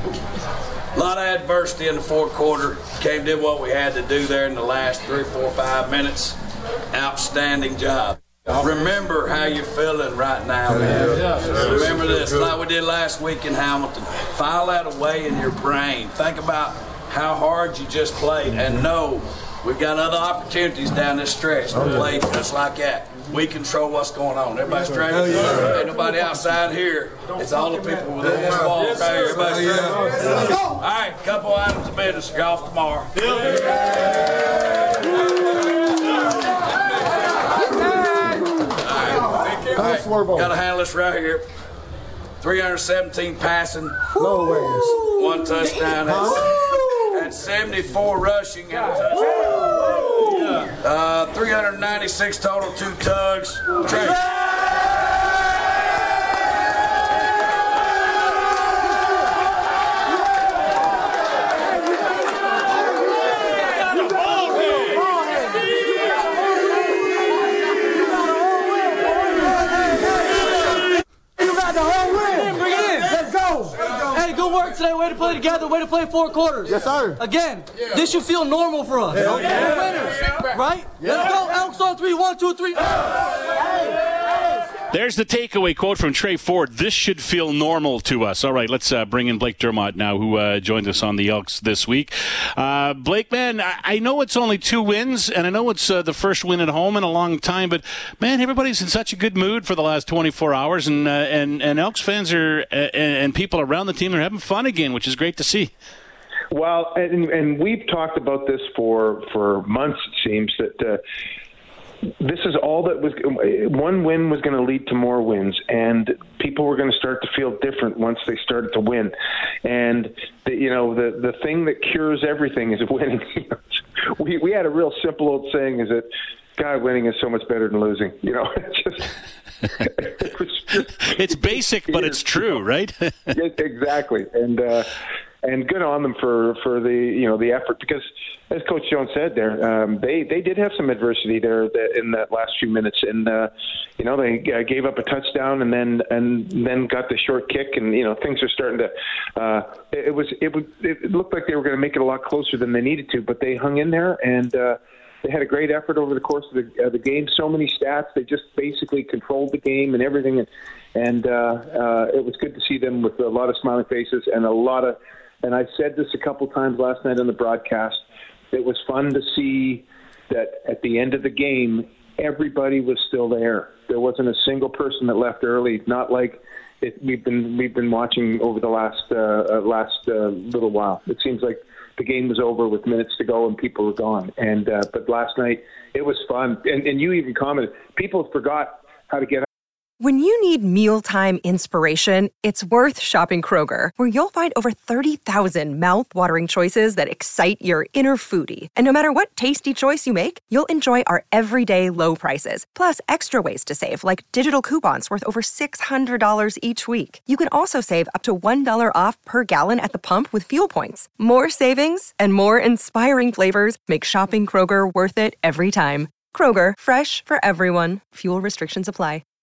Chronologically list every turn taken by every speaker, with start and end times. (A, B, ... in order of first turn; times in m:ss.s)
0:00.9-0:06.4 A
0:06.9-0:33.7 A
0:38.8-0:41.4 A
0:42.4-0:44.2 A
0:44.3-0:44.9 B
0:45.0-0:49.5 A
0:50.3-0:54.2 A
1:04.7-1:05.8 B
1:08.5-1:10.5 B
1:11.4-1:23.5 B
1:24.9-1:45.7 C
1:46.5-1:51.0 D
1:52.2-1:59.1 D
1:59.6-2:09.1 D
2:09.7-2:12.2 D
2:11.0-2:13.3 C
2:13.3-3:09.4 D
3:10.0-3:39.2 E